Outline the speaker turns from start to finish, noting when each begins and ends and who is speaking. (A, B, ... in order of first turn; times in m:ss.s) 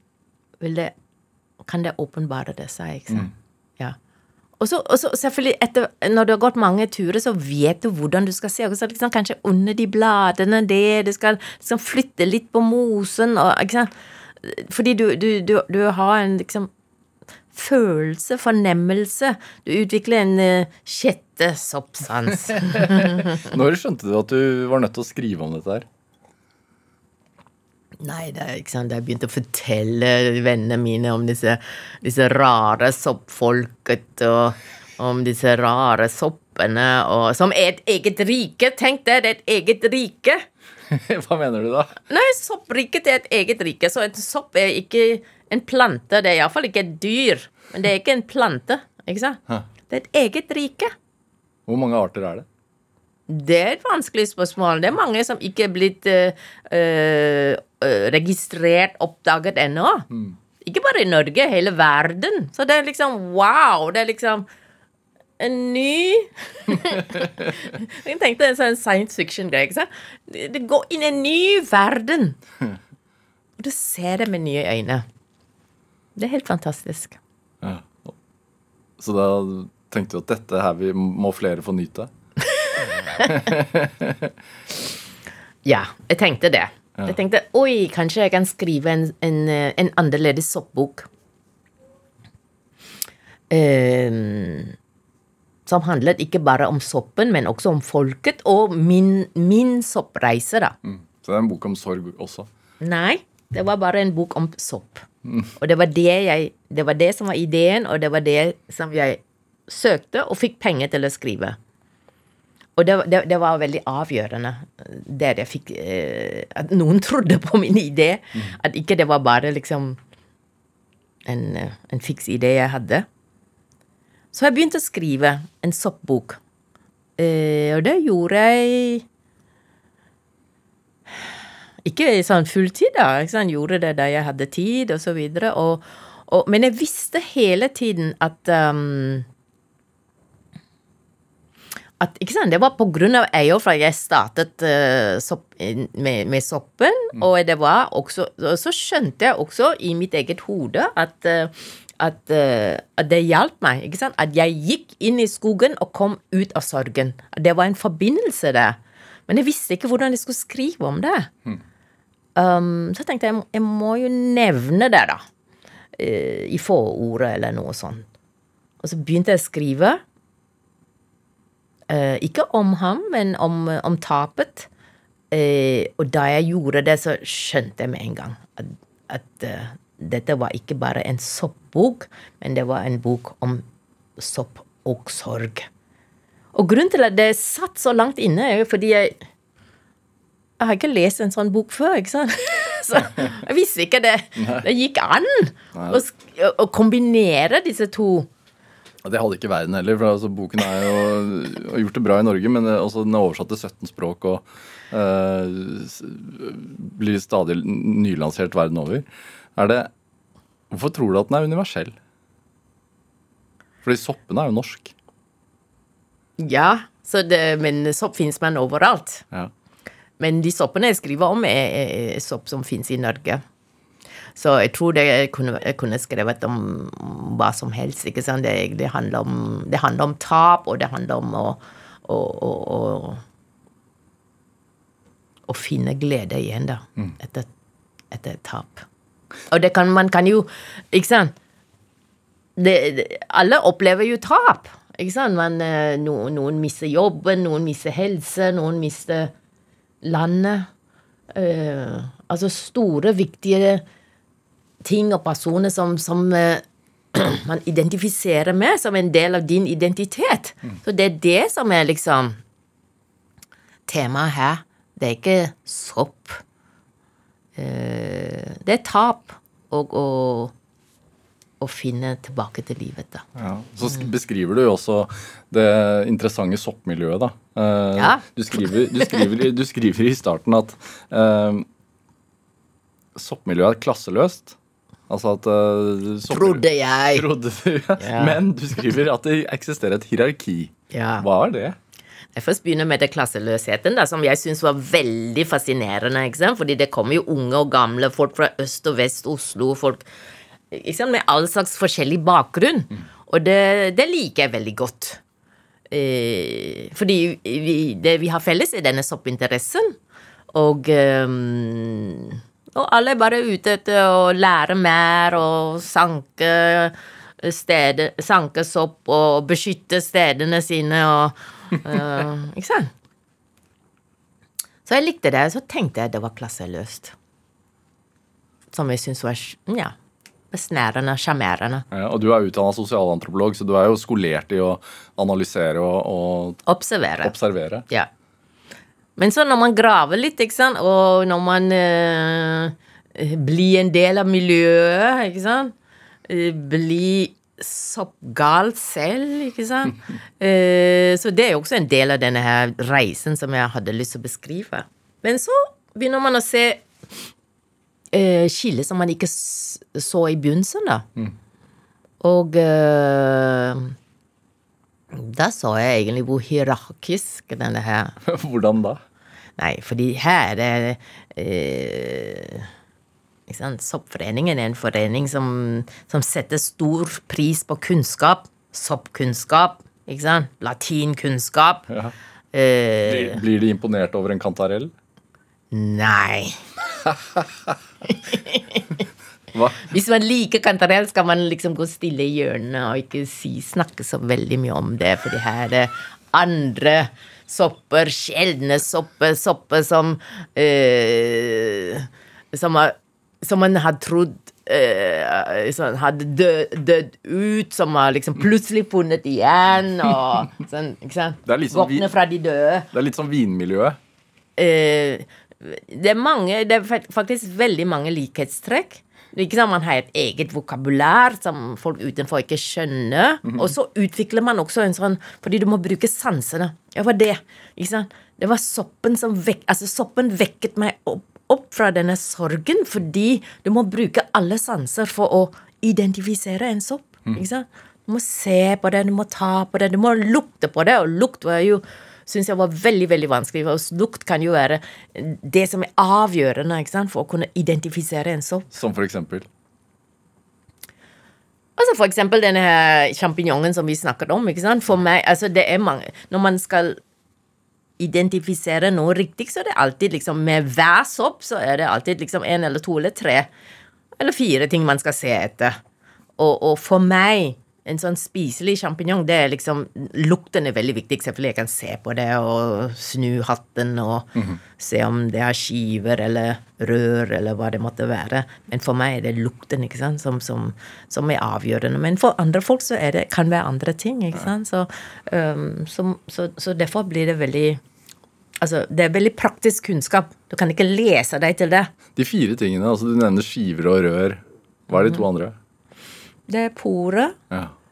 0:00.6-0:00.9 A
0:01.6-0:04.0 A
0:04.6-0:13.9 A
0:14.4-0:16.7 A
0:17.5-0:23.4 A
0:22.6-0:25.8 B
0:28.0-0:40.4 A
0:40.9-0:42.0 B
0:42.1-0:50.9 A
0:51.7-0:52.4 B
0:53.3-1:00.1 A
1:00.6-1:04.5 A
1:05.4-1:12.4 A
1:13.6-1:15.0 A
1:16.2-1:17.2 A
1:17.6-1:18.1 B
1:19.0-1:22.1 B
1:22.6-1:23.4 A
1:23.1-1:24.3 B
1:25.6-1:31.1 A
1:33.5-1:34.8 A
1:35.6-1:40.7 A
1:40.8-1:42.5 B
1:42.8-1:45.0 A
1:45.6-1:51.6 A
1:52.8-2:00.0 A
2:01.2-2:03.0 A
2:04.3-2:06.4 A
2:07.2-2:09.0 A
2:11.8-2:19.3 A
2:22.0-2:41.3 A
2:42.4-2:45.2 A
2:46.0-2:48.0 A
2:48.8-2:50.0 A
2:51.9-2:54.7 A
2:55.3-3:03.6 A
3:04.2-3:05.7 A
3:06.5-3:09.2 A
3:10.6-3:18.3 A
3:14.4-3:14.6 B
3:15.7-3:16.0 B
3:19.0-3:29.9 B
3:30.7-3:31.9 B
3:33.8-3:34.9 B
3:36.4-3:39.2 A
3:40.2-3:43.4 A
3:44.4-3:53.2 A
3:55.5-3:57.5 A
3:58.1-3:58.8 A
3:59.5-4:01.3 A
4:02.6-4:09.3 A
4:10.0-4:10.7 A
4:11.3-4:13.8 A
4:14.8-4:22.4 A
4:23.9-4:26.4 A
4:27.6-4:30.5 A
4:31.6-4:33.3 A
4:33.3-4:41.7 B
4:38.0-4:38.2 A
4:38.8-4:39.2 A
4:43.1-4:44.6 B
4:45.1-4:51.8 B
4:46.3-4:47.2 A
4:48.0-4:48.4 A
4:50.9-4:51.3 A
4:52.3-5:00.0 A
5:00.7-5:05.2 A
5:05.9-5:10.0 A
5:10.5-5:22.9 A
5:24.8-5:27.1 A
5:28.7-5:29.9 A
5:30.5-5:31.8 A
5:31.9-5:36.6 B
5:36.6-5:37.3 A
5:37.2-5:37.8 B
5:39.2-5:45.7 A
5:46.3-5:56.9 A
5:58.1-6:01.0 A
6:02.2-6:04.0 A
6:05.1-6:08.2 A
6:08.2-6:09.0 B
6:09.6-6:12.7 A
6:13.5-6:21.9 A
6:22.5-6:23.4 A
6:23.0-6:24.9 B
6:25.7-6:26.6 A
6:28.0-6:29.0 A
6:29.5-6:29.8 B
6:29.7-6:52.9 A
6:51.4-6:52.1 B
6:52.9-6:54.0 B
6:54.6-7:28.7 A
7:28.7-7:29.5 B
7:31.8-7:37.0 A
7:38.0-7:43.5 A
7:44.2-7:45.8 A
7:46.4-8:07.8 A
8:08.6-8:11.9 A
8:12.2-8:15.5 B
8:16.5-8:17.4 A